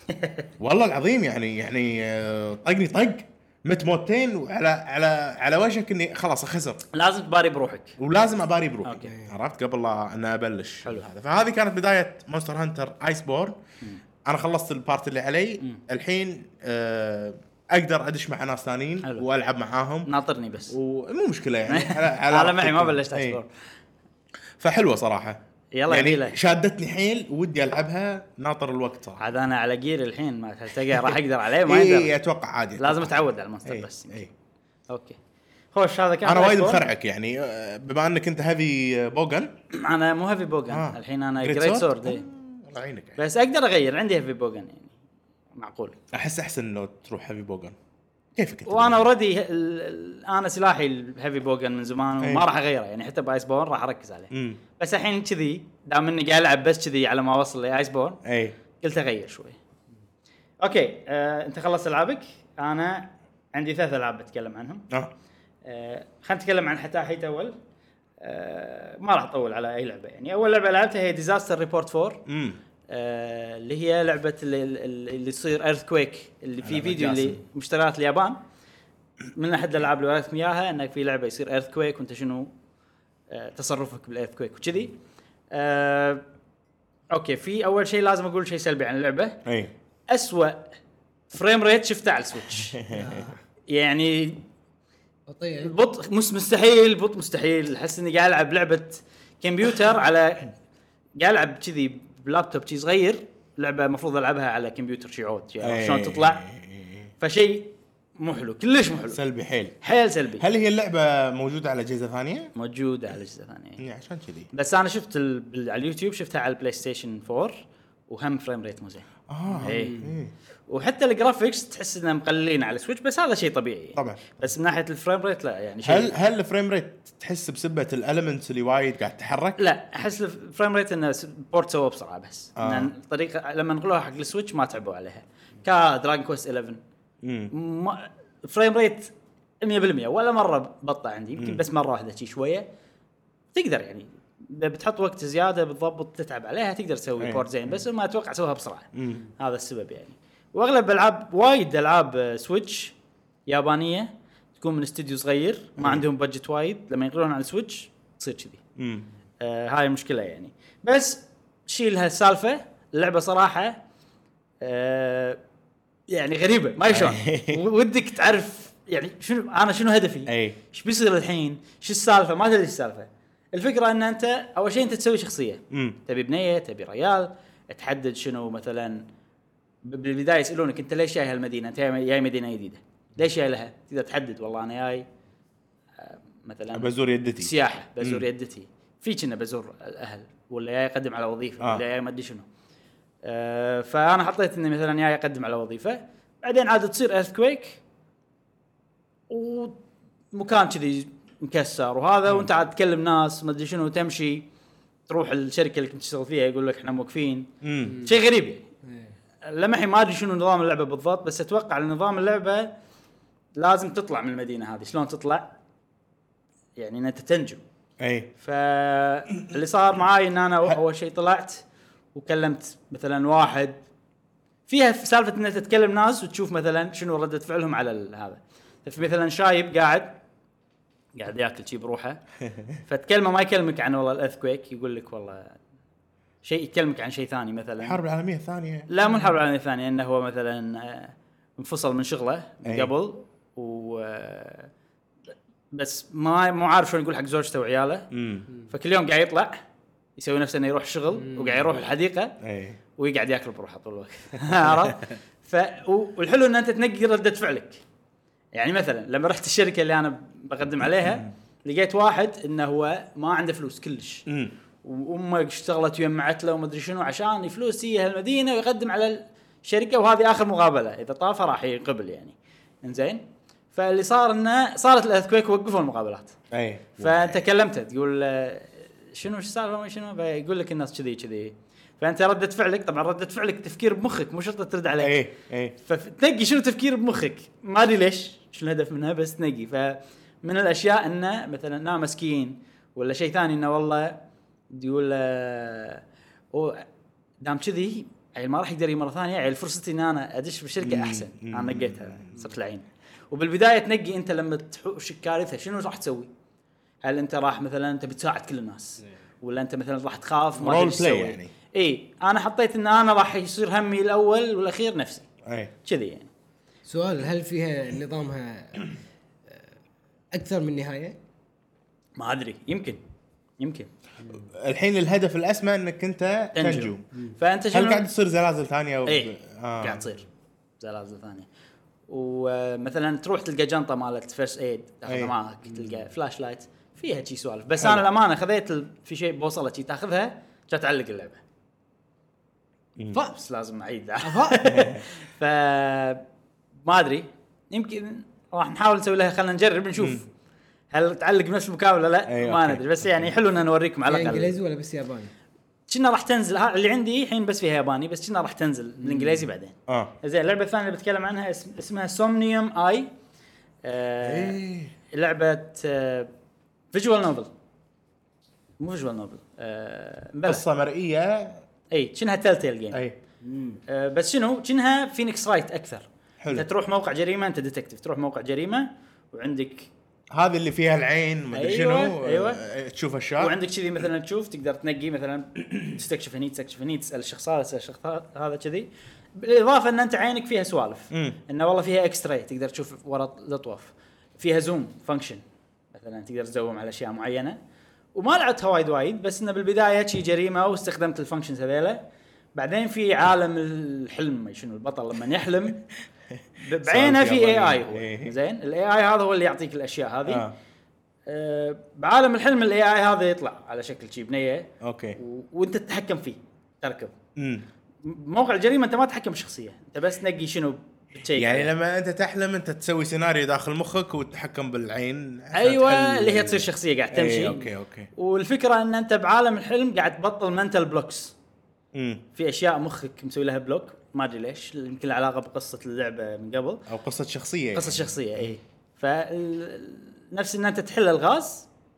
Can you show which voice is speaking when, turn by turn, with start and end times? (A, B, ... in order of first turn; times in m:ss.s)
0:00.1-0:00.4 A
0:00.6-0:06.8 B
0:06.9-0:07.9 A
0:08.0-0:13.6 B
0:08.8-0:09.1 A
0:14.2-0:20.1 B
0:20.0-0:20.7 A
0:20.7-0:23.4 B
0:21.7-0:23.5 A
0:24.6-0:25.4 B
0:25.7-0:26.4 A
0:25.9-0:29.2 B
0:29.2-0:32.1 A
0:31.6-0:34.3 B
0:32.8-0:34.2 A
0:34.9-0:35.2 A
0:35.7-0:36.8 A
0:36.2-0:39.5 B
0:39.7-0:42.2 A
0:40.7-0:43.2 B
0:43.2-0:44.9 A
0:45.6-0:46.0 A
0:46.1-0:47.7 B
0:48.4-0:49.0 B
0:48.7-0:58.2 A
0:52.2-0:52.5 B
0:54.3-0:54.6 B
0:58.2-0:58.5 B
0:58.8-0:59.6 A
1:00.6-1:04.8 A
1:05.6-1:07.5 A
1:08.2-1:12.2 A
1:12.3-1:12.6 B
1:12.9-1:18.4 A
1:16.6-1:17.4 B
1:19.3-1:22.5 A
1:23.3-1:24.9 A
1:25.5-1:26.2 A
1:27.1-1:29.4 A
1:29.4-1:29.7 B
1:30.1-1:30.7 A
1:31.3-1:32.8 A
1:32.8-1:33.3 B
1:32.9-1:33.4 C
1:33.7-1:34.4 A
1:35.3-1:35.7 C
1:35.6-1:40.5 A
1:41.2-1:46.4 A
1:45.6-1:47.1 B
1:47.2-1:49.2 A
1:49.1-1:49.8 B
1:49.8-1:50.4 A
1:50.4-1:52.5 B
1:52.5-1:53.8 A
1:53.8-1:54.5 B
1:54.5-1:57.6 A
1:58.1-1:59.1 A
1:59.3-2:00.3 B
1:59.6-2:00.0 A
1:59.6-2:00.2 C
2:00.7-2:06.2 A
2:04.0-2:04.4 B
2:05.8-2:09.6 B
2:09.6-2:16.8 A
2:12.6-2:12.9 B
2:17.2-2:17.5 B
2:17.5-2:22.6 A
2:21.4-2:21.6 B
2:23.5-2:32.9 A
2:27.2-2:27.7 B
2:28.9-2:29.2 B
2:33.5-2:38.6 A
2:35.8-2:36.0 B
2:38.8-2:39.0 B
2:39.4-2:43.8 A
2:44.6-2:45.4 A
2:46.1-2:59.0 A
2:46.9-2:47.6 B
2:50.3-2:50.6 B
2:55.7-2:56.0 B
2:59.8-3:05.0 A
3:06.0-3:12.4 A
3:06.7-3:08.2 B
3:13.2-3:17.8 A
3:19.3-3:19.8 A
3:20.3-3:24.5 A
3:25.1-3:28.6 A
3:27.6-3:28.0 B
3:28.9-3:29.1 C
3:29.5-3:32.7 A
3:33.6-3:35.5 A
3:36.8-3:37.6 A
3:38.0-3:38.3 B
3:38.4-3:43.8 A
3:44.7-3:50.2 A
3:51.2-3:52.2 A
3:52.8-3:55.6 A
3:56.4-3:58.0 A
3:57.8-3:58.9 B
3:58.9-4:04.7 A
4:02.6-4:02.9 B
4:05.7-4:08.1 A
4:08.1-4:08.5 B
4:08.7-4:09.6 A
4:10.2-4:12.3 A
4:11.2-4:11.5 C
4:12.4-4:12.8 B
4:13.0-4:17.8 A
4:18.5-4:24.2 A
4:21.0-4:21.3 B
4:24.3-4:24.5 B
4:24.8-4:33.2 A
4:33.7-4:36.3 A
4:36.5-4:37.4 B
4:37.0-4:45.2 A
4:45.0-4:45.7 B
4:45.8-4:54.2 A
4:54.7-4:56.9 A
4:57.4-5:06.3 A
5:00.8-5:02.4 B
5:07.0-5:15.3 A
5:10.6-5:11.5 B
5:15.4-5:15.7 B
5:15.8-5:16.3 A
5:16.9-5:18.9 C
5:20.3-5:21.2 C
5:22.2-5:23.0 A
5:23.6-5:23.9 A
5:24.4-5:27.0 B
5:26.5-5:28.0 A
5:27.7-5:30.0 B
5:29.0-5:30.3 A
5:30.8-5:31.5 A
5:32.1-5:41.4 A
5:35.1-5:35.3 B
5:37.8-5:38.0 B
5:43.0-5:43.2 B
5:43.1-5:46.2 A
5:44.2-5:44.6 C
5:44.6-5:45.0 B
5:46.8-5:50.2 A
5:50.9-5:54.5 A
5:52.3-5:53.3 B
5:54.1-5:55.3 C
5:55.9-6:03.1 A
5:59.9-6:00.1 B
6:03.8-6:04.6 A
6:04.2-6:04.9 B
6:05.1-6:06.3 A
6:06.9-6:07.5 A
6:08.8-6:10.6 A
6:10.5-6:11.6 B
6:11.9-6:13.0 A
6:13.4-6:13.8 C
6:13.9-6:19.9 A
6:16.4-6:16.7 B
6:20.3-6:23.6 B
6:21.5-6:22.6 A
6:23.4-6:35.4 A
6:31.1-6:31.4 B
6:35.9-6:37.6 A
6:38.2-6:42.0 A
6:42.5-6:45.8 A
6:46.6-6:50.4 A
6:46.8-6:48.3 B
6:50.3-6:50.5 B
6:51.3-6:57.1 A
6:54.8-6:55.2 B
6:57.4-6:57.6 B
6:58.0-7:01.7 A
7:01.3-7:08.1 B
7:05.5-7:07.6 A
7:08.1-7:11.3 A
7:11.9-7:12.2 B
7:12.3-7:16.8 A
7:16.9-7:18.5 B
7:17.7-7:21.7 A